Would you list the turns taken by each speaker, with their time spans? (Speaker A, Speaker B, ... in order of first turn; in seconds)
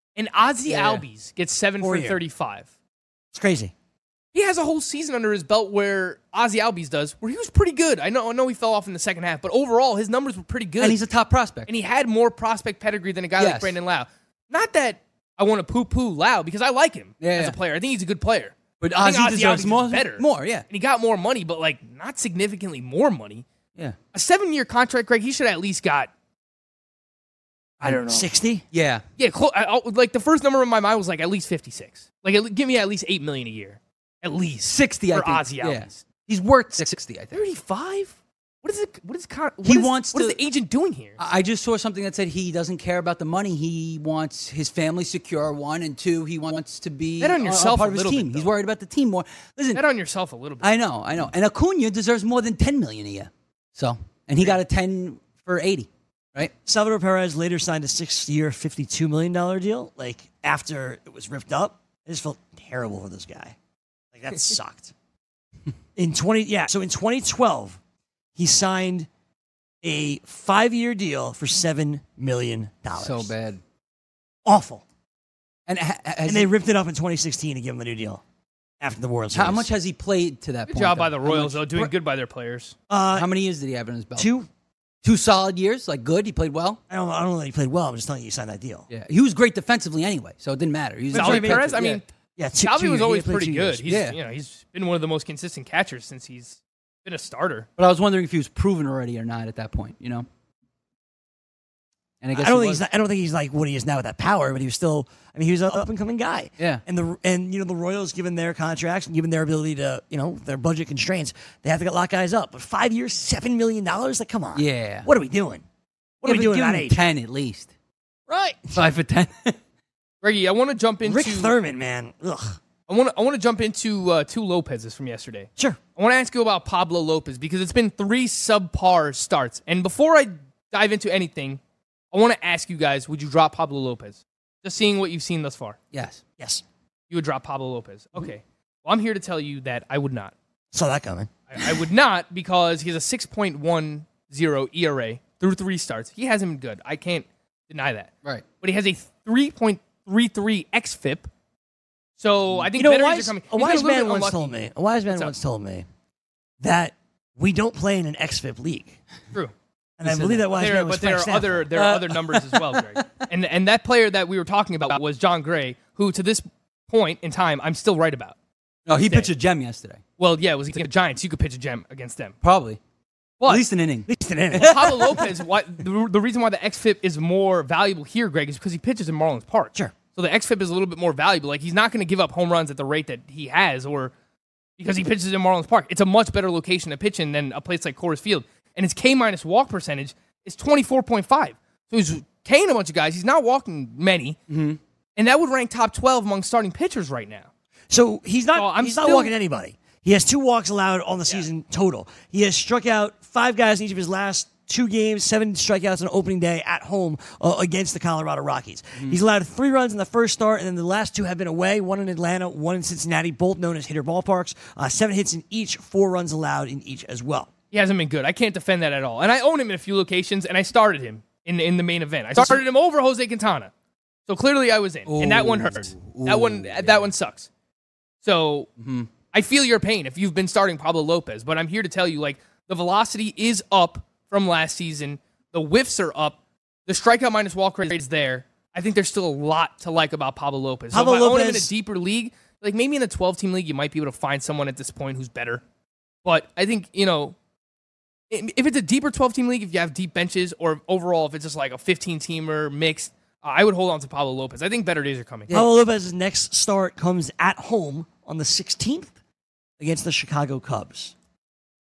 Speaker A: 0.1-2.7, 4.3-11.0, 11.7-23.5, 24.1-26.1, 27.8-28.3, 29.2-36.0, 37.3-41.2, 47.2-48.5, 49.7-50.7, 80.7-82.8, 91.1-92.1, 92.6-97.7, 120.2-121.5, 122.9-131.6, 132.1-135.8, 137.1-140.3, 141.5-151.3, 152.2-154.6, 160.3-168.4, 170.2-172.4, 174.6-184.1, 184.8-194.4, 195.2-197.5, 198.6-199.3, 217.7-223.7, 224.3-227.5, 228.2-228.7, 229.3-245.6, 246.2-247.4, 248.3-255.5
Speaker B: 0.7-1.0, 10.8-11.7, 13.4-13.8, 17.2-17.6, 18.8-20.6, 28.7-29.0, 34.7-37.4, 39.6-40.4, 41.2-49.8, 50.6-56.5, 73.0-73.6, 75.7-76.5, 79.3-81.9, 83.1-84.3, 85.0-86.8, 88.9-92.0, 93.9-94.2, 97.8-100.3, 102.2-102.8, 114.6-115.1, 116.2-117.7, 118.7-119.6, 135.9-136.2, 160.1-160.4, 161.8-163.2, 168.9-170.0, 172.4-172.8, 173.5-174.1, 194.5-194.8, 225.1-227.1, 228.8-229.1
Speaker C: 1.8-2.2, 3.3-3.7, 27.8-28.6, 56.6-63.6, 64.1-64.9, 66.0-67.8, 68.4-69.1, 69.8-73.3, 74.5-74.8, 76.2-78.2, 78.8-79.7, 82.9-83.3, 84.2-84.5, 86.9-88.9, 91.1-91.8, 92.4-93.9, 102.3-115.6, 116.2-117.0, 118.3-118.8, 121.0-122.6, 136.4-136.6, 140.7-141.3, 152.8-155.9, 156.6-159.0, 160.0-161.7, 174.1-175.2, 197.9-217.5, 240.9-241.7, 255.5-259.1, 259.8-261.1